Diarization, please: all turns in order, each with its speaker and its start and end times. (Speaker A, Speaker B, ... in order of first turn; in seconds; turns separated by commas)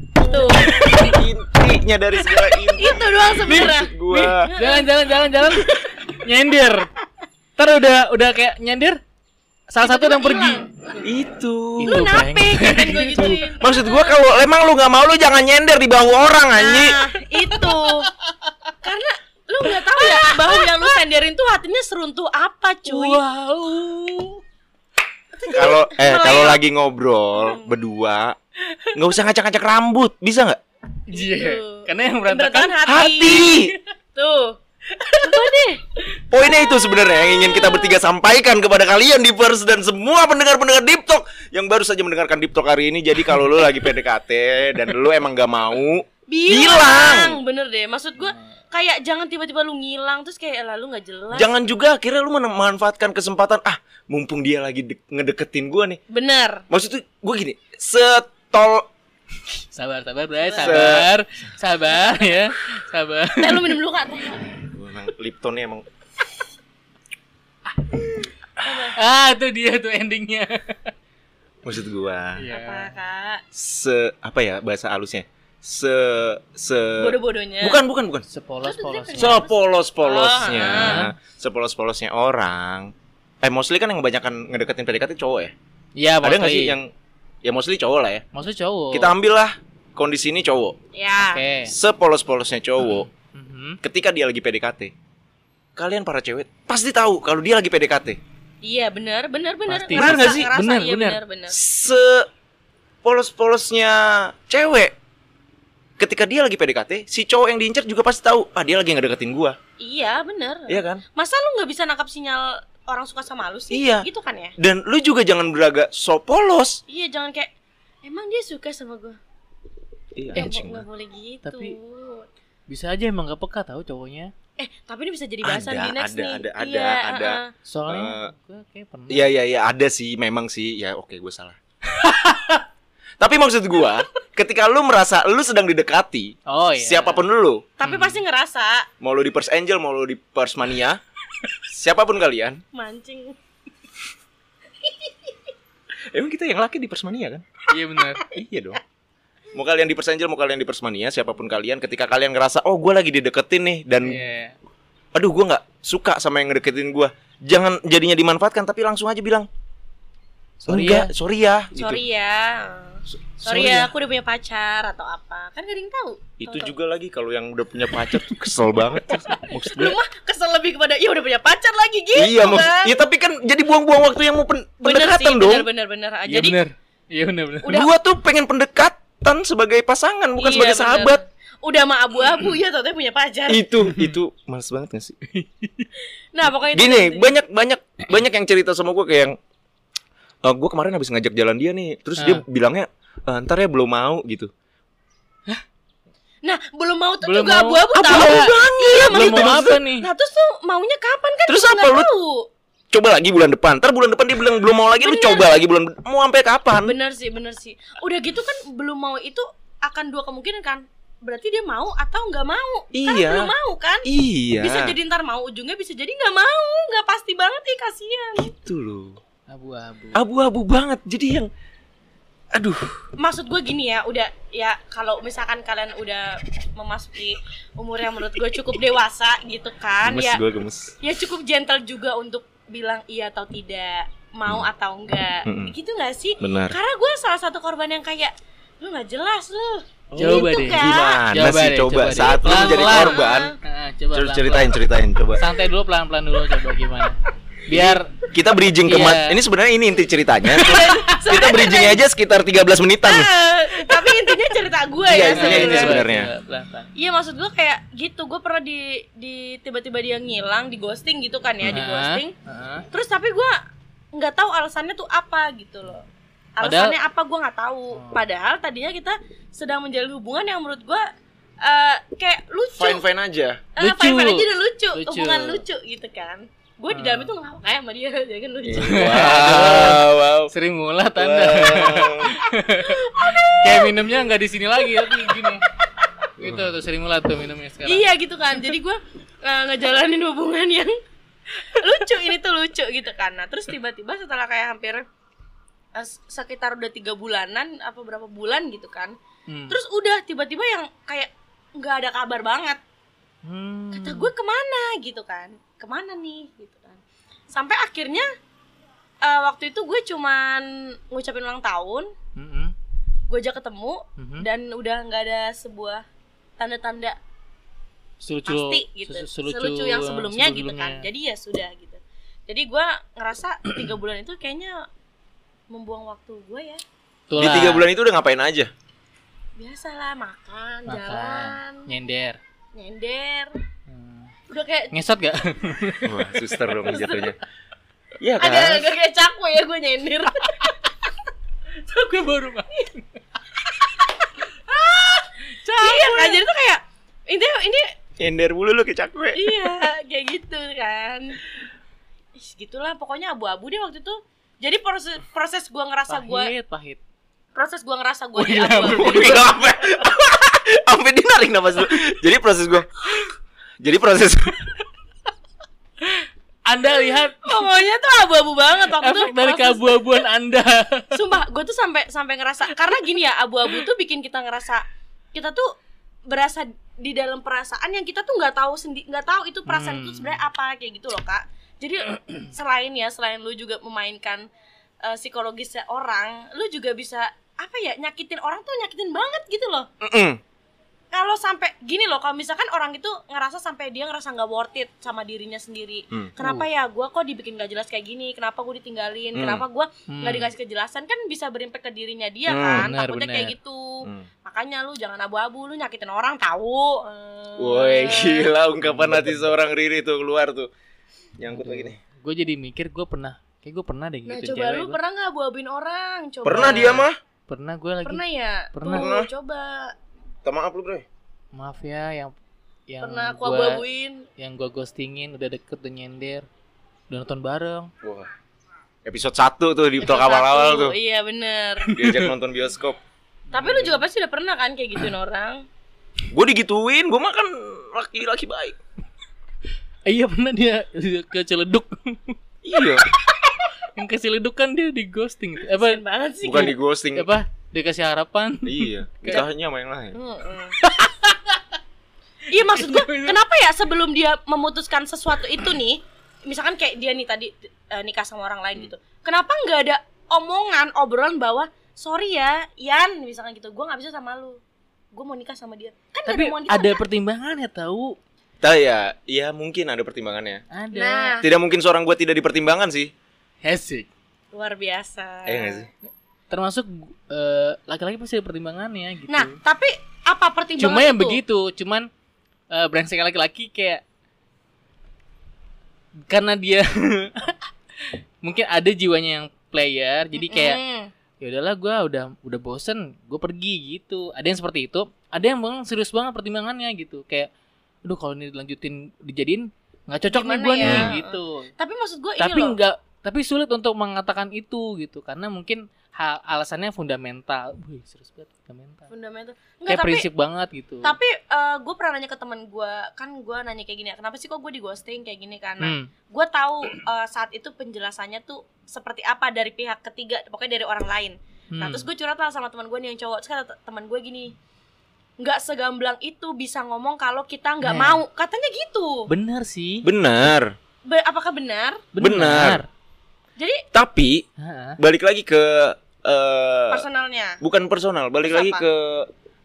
Speaker A: 0.2-0.7, Speaker B: 0.3-1.1, Speaker C: 0.6-4.5, Speaker A: 2.8-4.9, Speaker B: 4.1-6.9, Speaker B: 7.6-9.0, Speaker B: 9.7-10.7, Speaker A: 9.8-10.9, Speaker C: 11.0-12.1, Speaker B: 11.8-13.4, Speaker A: 11.8-14.2, Speaker C: 13.6-17.0, Speaker A: 16.6-18.1, Speaker A: 18.8-23.2, Speaker B: 19.7-20.7, Speaker B: 22.9-24.4, Speaker A: 25.4-26.6, Speaker C: 25.5-28.4, Speaker A: 27.4-27.7, Speaker C: 28.9-30.6, Speaker B: 31.1-32.8, Speaker A: 31.1-34.6, Speaker C: 32.9-33.8, Speaker B: 35.1-35.5, Speaker A: 35.1-35.8, Speaker C: 36.3-47.4, Speaker A: 36.8-38.0, Speaker B: 43.2-43.7, Speaker A: 46.3-51.6, Speaker B: 48.2-48.5, Speaker C: 51.3-56.0, Speaker A: 56.1-56.6, Speaker C: 56.7-58.9, Speaker B: 59.7-63.7, Speaker A: 60.4-60.9, Speaker C: 60.6-61.1, Speaker A: 63.4-64.5, Speaker C: 64.7-65.8, Speaker A: 68.6-69.0, Speaker B: 68.9-70.9, Speaker C: 71.7-72.5, Speaker B: 72.4-73.0, Speaker A: 72.5-73.4, Speaker C: 73.5-78.2, Speaker A: 77.0-77.8, Speaker B: 78.3-79.4, Speaker A: 78.6-81.1, Speaker C: 79.2-85.5, Speaker B: 80.6-81.1, Speaker B: 86.0-86.8, Speaker C: 86.2-86.9, Speaker C: 87.4-88.2, Speaker B: 88.3-89.1, Speaker C: 88.9-90.8, Speaker A: 90.9-91.4, Speaker B: 91.2-91.8, Speaker C: 91.7-93.1, Speaker B: 92.9-93.8, Speaker C: 93.8-94.9, Speaker C: 95.8-98.2, Speaker A: 98.6-101.6, Speaker B: 99.7-101.2, Speaker C: 99.9-100.5, Speaker C: 101.5-102.3, Speaker C: 103.0-104.9, Speaker C: 106.0-109.6, Speaker A: 109.8-114.5, Speaker C: 110.7-111.0, Speaker C: 113.7-114.1, Speaker C: 114.6-116.8, Speaker A: 116.9-117.5, Speaker A: 118.0-119.2, Speaker C: 120.2-120.8, Speaker A: 120.3-122.3, Speaker B: 121.4-121.8, Speaker B: 122.7-124.3, Speaker A: 124.6-127.5, Speaker C: 125.4-128.3, Speaker B: 127.7-129.3, Speaker C: 129.1-131.6, Speaker B: 131.9-132.6, Speaker C: 133.2-137.7, Speaker B: 136.5-137.2, Speaker A: 137.8-138.9, Speaker B: 137.8-138.2, Speaker C: 139.0-141.0, Speaker C: 141.6-142.6, Speaker A: 142.7-143.4, Speaker A: 144.8-145.3, Speaker C: 146.1-147.5, Speaker B: 147.7-148.2, Speaker C: 148.3-148.8, Speaker C: 149.5-154.2, Speaker B: 154.0-154.6, Speaker C: 155.1-159.5, Speaker B: 160.6-161.1, Speaker C: 160.7-162.0, Speaker A: 161.7-166.7, Speaker C: 163.4-163.9, Speaker C: 166.4-169.9, Speaker B: 169.1-169.6, Speaker A: 169.5-173.0, Speaker C: 172.2-175.7, Speaker A: 174.8-176.6, Speaker B: 176.3-177.8, Speaker A: 177.6-177.9, Speaker C: 177.6-181.2, Speaker A: 180.4-183.6, Speaker C: 183.5-185.2, Speaker B: 183.9-184.2, Speaker B: 185.3-185.9, Speaker A: 186.3-187.3, Speaker C: 186.7-189.4, Speaker C: 190.4-194.5, Speaker B: 192.2-192.4, Speaker A: 196.4-202.5, Speaker B: 197.2-200.1, Speaker C: 197.9-199.8, Speaker C: 201.5-202.1, Speaker C: 202.9-206.9, Speaker A: 205.0-205.6, Speaker A: 206.8-214.1, Speaker C: 212.9-213.5, Speaker C: 214.1-215.0, Speaker A: 214.6-218.5, Speaker C: 218.4-219.2, Speaker B: 219.5-220.2, Speaker C: 220.2-221.5, Speaker C: 222.5-223.0, Speaker A: 223.2-230.4, Speaker C: 230.0-230.9, Speaker A: 231.0-241.3, Speaker C: 235.4-235.7, Speaker C: 236.4-236.8, Speaker C: 240.1-243.5, Speaker B: 240.2-244.7, Speaker A: 242.3-243.6, Speaker C: 244.1-245.4, Speaker B: 245.4-248.1, Speaker C: 247.7-253.3, Speaker B: 248.8-249.4, Speaker A: 250.5-252.0, Speaker B: 250.6-250.9, Speaker A: 253.0-256.0, Speaker C: 255.1-256.3, Speaker B: 255.2-256.9, Speaker A: 257.0-262.3, Speaker B: 261.6-262.9, Speaker A: 262.9-263.6, Speaker A: 264.1-266.1, Speaker A: 266.6-271.1, Speaker B: 266.6-267.0, Speaker B: 267.9-268.3, Speaker A: 271.6-273.1, Speaker C: 272.8-273.6, Speaker A: 273.8-279.4, Speaker B: 273.8-275.6, Speaker B: 276.9-277.4, Speaker C: 278.6-280.5, Speaker B: 278.8-285.6, Speaker C: 281.2-282.3, Speaker A: 282.8-284.1, Speaker A: 284.9-285.5, Speaker B: 286.4-288.1, Speaker A: 287.9-290.9, Speaker A: 291.6-295.1, Speaker A: 295.9-299.1, Speaker B: 299.5-299.8, Speaker A: 299.7-302.8, Speaker B: 303.4-304.3, Speaker A: 303.9-308.3, Speaker A: 309.2-312.1, Speaker B: 312.4-312.7, Speaker A: 313.3-316.1, Speaker B: 314.2-314.5, Speaker A: 316.6-317.2, Speaker B: 318.2-321.1, Speaker A: 318.5-324.8, Speaker A: 325.7-326.8, Speaker B: 327.3-327.9, Speaker C: 327.4-328.7, Speaker A: 329.6-331.9, Speaker B: 330.9-332.4, Speaker A: 332.8-333.5, Speaker B: 333.9-334.3, Speaker A: 334.5-334.9, Speaker B: 334.9-336.7, Speaker C: 336.1-337.4, Speaker A: 336.9-337.3, Speaker C: 338.2-338.9, Speaker A: 338.4-340.8, Speaker B: 341.8-343.1, Speaker A: 343.9-345.3, Speaker B: 345.5-346.4, Speaker A: 345.8-347.9, Speaker C: 348.2-349.6, Speaker A: 349.4-351.4, Speaker A: 352.4-356.5, Speaker B: 356.1-357.0, Speaker A: 357.6-359.4, Speaker B: 358.4-359.4, Speaker C: 358.9-362.9, Speaker C: 363.8-364.6, Speaker B: 366.1-367.7, Speaker A: 367.1-370.2, Speaker B: 368.9-371.2, Speaker A: 371.1-375.7, Speaker A: 376.3-384.5, Speaker B: 379.7-380.4, Speaker A: 385.1-389.9, Speaker C: 390.0-390.4, Speaker A: 391.1-408.5, Speaker C: 399.4-399.6, Speaker B: 400.1-400.5, Speaker C: 402.5-402.9, Speaker B: 402.7-403.6, Speaker C: 407.6-410.7, Speaker B: 408.8-409.5, Speaker C: 411.4-412.0, Speaker B: 411.4-415.0, Speaker A: 414.3-417.1, Speaker C: 416.4-417.2, Speaker B: 416.6-417.0, Speaker B: 417.5-419.1, Speaker A: 418.0-419.9, Speaker C: 418.9-419.3, Speaker C: 420.4-421.1, Speaker B: 421.5-422.3, Speaker B: 422.9-423.8, Speaker A: 423.0-424.3, Speaker B: 424.4-426.5, Speaker B: 427.1-427.9, Speaker C: 428.0-428.3, Speaker C: 429.1-430.9, Speaker A: 430.0-431.9, Speaker B: 431.8-432.3, Speaker C: 431.9-433.0, Speaker B: 433.5-434.1, Speaker A: 433.5-435.6, Speaker C: 436.3-438.8, Speaker B: 440.1-442.4, Speaker C: 442.6-443.0, Speaker B: 443.3-446.0, Speaker A: 445.7-446.7, Speaker C: 446.4-447.3, Speaker B: 446.5-449.4, Speaker C: 448.7-450.2, Speaker A: 450.1-450.8, Speaker B: 450.8-451.6, Speaker A: 452.5-464.6, Speaker B: 452.6-453.4, Speaker A: 465.1-467.0, Speaker B: 466.3-468.2, Speaker C: 468.6-470.6, Speaker B: 470.7-471.4, Speaker A: 470.9-471.4, Speaker C: 471.4-473.1, Speaker B: 473.6-474.1, Speaker A: 474.5-475.9, Speaker C: 475.5-475.9, Speaker B: 476.5-479.6, Speaker A: 479.3-481.4, Speaker B: 480.8-482.1, Speaker B: 482.7-484.0, Speaker B: 486.3-487.6, Speaker B: 488.4-490.8, Speaker A: 490.4-491.1, Speaker B: 491.4-497.5, Speaker B: 498.1-501.7, Speaker A: 500.3-502.8, Speaker C: 500.8-501.1, Speaker B: 502.4-509.1, Speaker A: 509.1-510.3, Speaker B: 509.9-511.1, Speaker A: 511.0-524.5, Speaker B: 515.8-516.1, Speaker B: 521.7-522.1, Speaker A: 525.4-529.3, Speaker B: 527.8-528.2, Speaker B: 529.3-530.1, Speaker C: 530.0-530.7, Speaker A: 531.1-532.1, Speaker B: 532.2-532.9, Speaker C: 532.2-532.8, Speaker C: 533.9-534.5, Speaker B: 534.6-535.0, Speaker C: 535.0-537.0, Speaker A: 536.9-537.6, Speaker C: 537.6-539.3, Speaker A: 538.5-538.9